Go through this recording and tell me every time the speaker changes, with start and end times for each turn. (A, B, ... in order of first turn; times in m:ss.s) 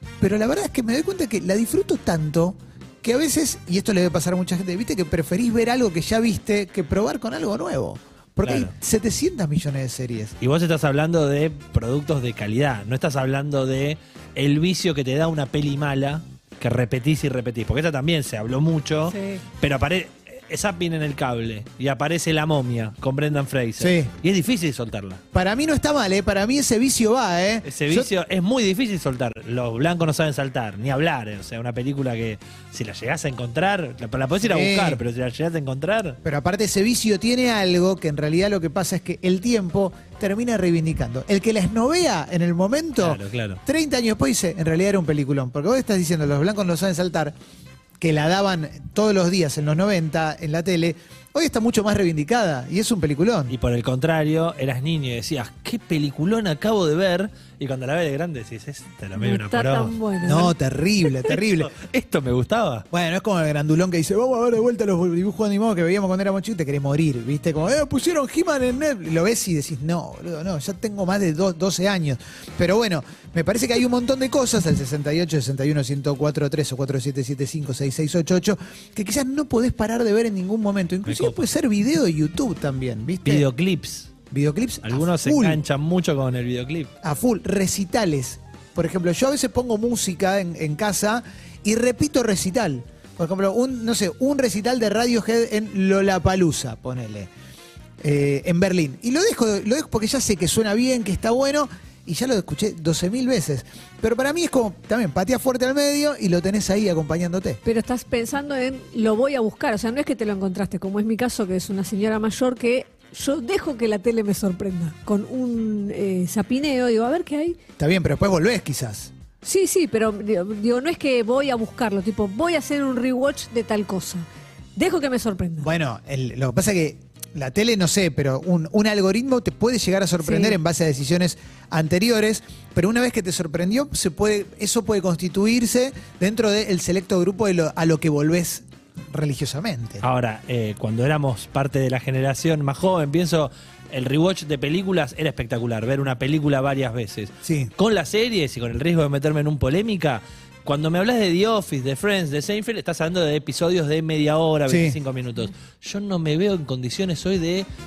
0:00.2-0:10.3 A
0:08.4-0:08.7 B
0:10.4-0:25.2 B
0:19.1-0:19.4 C
0:23.8-0:24.1 A
0:25.3-0:28.1 A
0:27.6-0:36.2 B
0:34.4-0:35.0 A
0:36.2-0:47.3 A
0:43.0-0:43.6 B
0:48.0-0:53.5 A
0:53.5-0:59.9 B
0:59.2-1:00.5 C
1:00.2-1:01.7 A
1:01.3-1:02.8 B
1:02.9-1:23.4 A
1:21.0-1:21.4 B
1:23.2-1:24.1 B
1:24.3-1:25.6 A
1:24.8-1:26.9 B
1:27.0-1:37.3 A
1:38.0-1:47.6 A
1:47.6-1:57.6 C
1:57.8-1:59.1 A
1:59.4-2:05.7 C
2:05.6-2:20.0 A
2:10.2-2:10.6 C
2:20.0-2:37.7 B
2:27.4-2:27.7 A
2:34.7-2:35.0 A